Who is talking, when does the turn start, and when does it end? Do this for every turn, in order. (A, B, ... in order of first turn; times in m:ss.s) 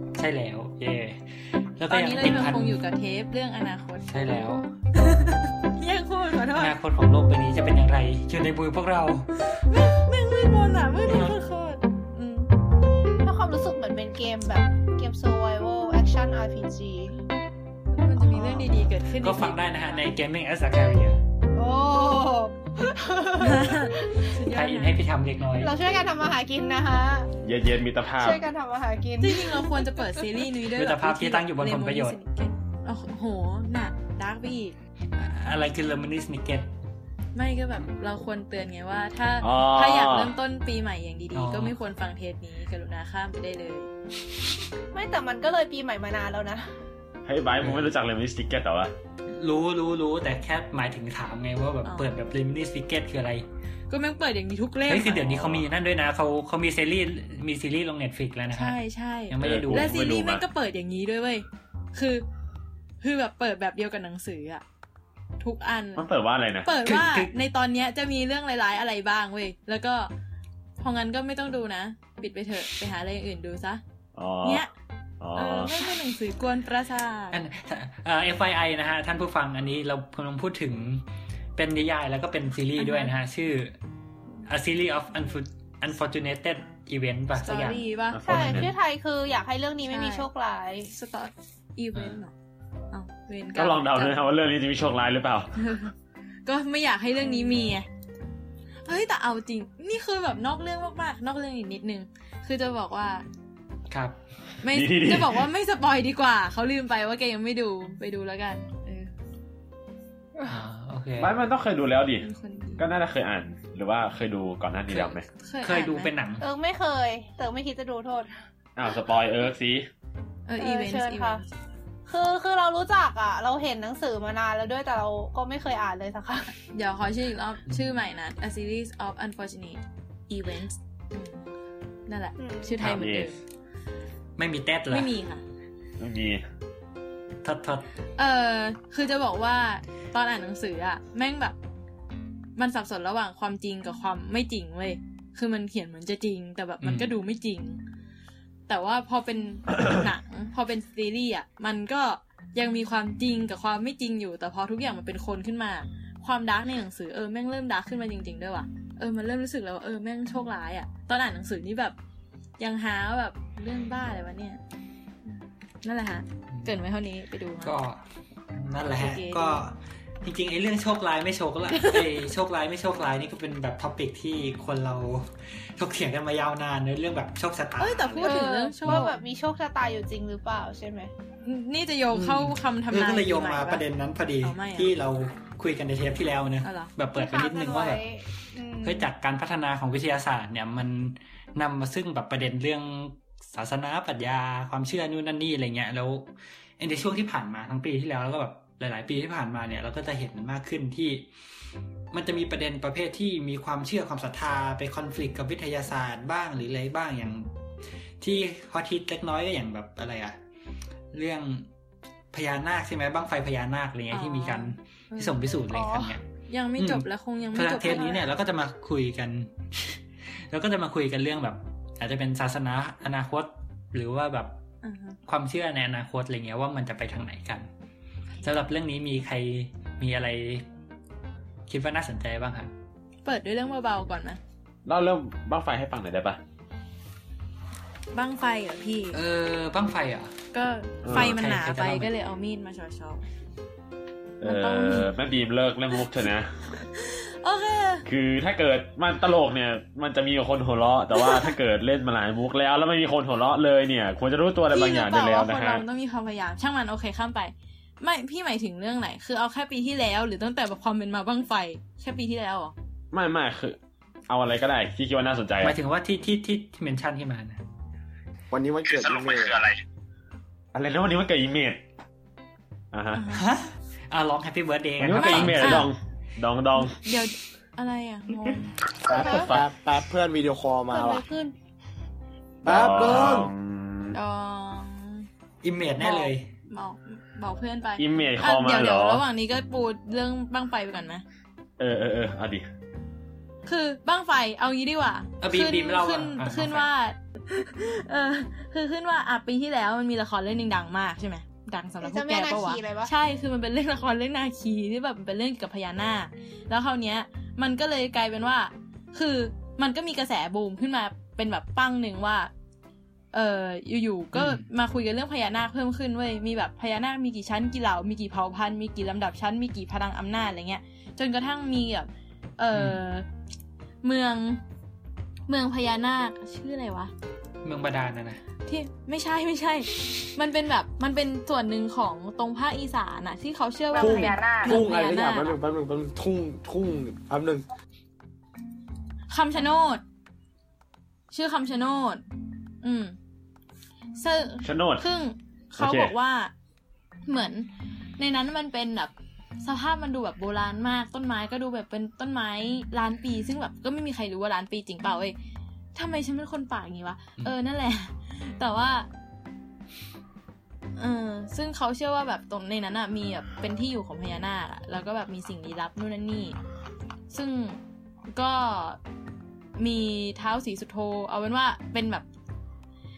0:00.2-0:02.8 A
0:01.9-0:04.3 B
0:04.1-0:04.7 A
0:04.9-0:06.8 B
0:06.6-0:09.3 A
0:09.5-0:12.5 B
0:11.1-0:11.3 A
0:13.2-0:17.2 C
0:17.9-0:20.1 B
0:19.1-0:21.2 A
0:21.6-0:24.3 C
0:23.4-0:25.0 B
0:24.5-0:25.7 A
0:25.6-0:27.3 C
0:27.4-0:28.4 D
0:28.2-0:30.0 C
0:29.2-0:34.8 B
0:30.7-0:32.2 A
0:35.2-0:36.7 A
0:37.3-0:43.9 B
0:39.4-0:40.3 D
0:41.4-0:41.8 A
0:44.9-0:46.7 C
0:47.2-0:48.9 D
0:47.6-0:47.9 A
0:49.3-0:53.5 A
0:51.8-0:52.1 B
0:53.9-0:55.2 B
0:54.9-0:58.8 A
0:55.2-0:55.7 D
0:58.5-1:02.2 B
0:59.3-0:59.9 A
0:59.4-1:00.4 D
1:03.0-1:04.6 B
1:05.4-1:06.1 B
1:06.0-1:06.7 D
1:06.6-1:10.1 B
1:06.8-1:07.3 A
1:10.8-1:13.8 B
1:14.2-1:14.6 D
1:14.4-1:14.7 B
1:15.2-1:15.8 D
1:15.4-1:17.4 B
1:17.3-1:21.0 A
1:21.6-1:23.8 A
1:22.8-1:23.1 B
1:24.4-1:28.7 A
1:27.4-1:28.2 B
1:28.1-1:28.8 D
1:28.2-1:30.9 C
1:29.9-1:30.3 B
1:30.9-1:32.3 B
1:32.9-1:34.2 B
1:33.6-1:35.6 D
1:35.6-1:35.9 B
1:36.5-1:37.9 B
1:38.9-1:43.2 B
1:43.9-1:44.2 A
1:44.6-1:49.1 B
1:44.7-1:45.5 D
1:50.4-1:51.4 A
1:51.2-1:52.3 D
1:52.2-1:52.9 B
1:52.8-1:55.3 D
1:54.9-1:56.5 A
1:55.4-1:56.1 B
1:56.4-1:58.3 C
1:58.8-1:59.9 D
2:00.5-2:01.5 B
2:00.6-2:01.4 C
2:02.1-2:06.6 C
2:06.7-2:11.4 B
2:07.7-2:08.0 A
2:12.1-2:13.4 B
2:12.4-2:12.8 C
2:12.8-2:13.1 A
2:12.8-2:13.3 D
2:14.4-2:15.1 A
2:14.9-2:15.4 B
2:16.0-2:16.4 D
2:17.4-2:17.9 A
2:18.2-2:21.6 B
2:22.6-2:27.8 B
2:26.8-2:27.2 A
2:28.7-2:42.0 B
2:42.6-2:44.6 B
2:45.3-2:47.8 B
2:47.6-2:48.0 A
2:48.5-2:59.1 A
2:48.9-2:49.6 B
2:51.7-2:52.2 B
2:57.8-2:59.2 B
2:58.2-3:01.1 C
3:01.4-3:03.8 B
3:02.1-3:08.0 A
3:04.4-3:04.9 B
3:06.6-3:06.9 B
3:07.2-3:09.1 C
3:08.8-3:21.3 A
3:22.1-3:27.5 A
3:28.2-3:30.4 A
3:31.1-3:31.7 A
3:32.3-3:36.2 A
3:34.1-3:35.4 B
3:35.7-3:36.1 C
3:36.5-3:38.2 B
3:36.8-3:44.6 A
3:37.8-3:38.2 C
3:44.8-3:45.2 B
3:45.3-3:47.7 A
3:48.4-3:50.7 A
3:51.7-3:52.7 A
3:53.2-3:54.4 B
3:54.9-3:56.4 D
3:58.1-3:59.2 B
3:59.1-4:00.4 A
4:00.5-4:03.2 B
4:01.0-4:01.4 D
4:01.1-4:02.1 A
4:04.4-4:06.5 D
4:04.4-4:05.1 B
4:06.7-4:08.1 B
4:08.1-4:15.8 D
4:11.1-4:11.5 B
4:14.7-4:22.7 B
4:23.1-4:23.8 D
4:24.3-4:25.8 D
4:25.6-4:27.6 A
4:28.5-4:29.7 E
4:30.7-4:31.8 D
4:32.9-4:33.3 D
4:33.1-4:33.5 B
4:33.3-4:35.9 A
4:35.0-4:37.0 D
4:35.2-4:35.9 B
4:36.8-4:38.7 B
4:39.1-4:41.2 E
4:39.2-4:39.6 C
4:39.2-4:39.6 D
4:40.9-4:41.5 C
4:42.6-4:43.5 E
4:42.6-4:44.2 D
4:44.1-4:45.3 B
4:45.6-4:46.5 A
4:46.0-4:51.2 B
4:48.0-4:49.2 D
4:51.8-4:52.7 D
4:53.7-5:12.5 B
4:55.4-4:56.9 A
5:02.0-5:03.1 C
5:13.3-5:23.3 B
5:14.3-5:14.6 A
5:22.7-5:23.0 A
5:24.0-5:24.6 B
5:25.5-5:27.1 B
5:27.6-5:28.4 A
5:28.7-5:35.6 B
5:33.9-5:34.8 C
5:34.0-5:37.6 E
5:39.3-5:40.0 B
5:41.3-5:42.2 B
5:42.8-5:43.2 B
5:44.2-5:46.5 B
5:44.6-5:45.0 D
5:45.8-5:46.1 D
5:47.3-5:55.4 B
5:56.0-5:59.1 B
6:01.0-6:06.6 B
6:07.3-6:09.0 B
6:09.8-6:12.3 B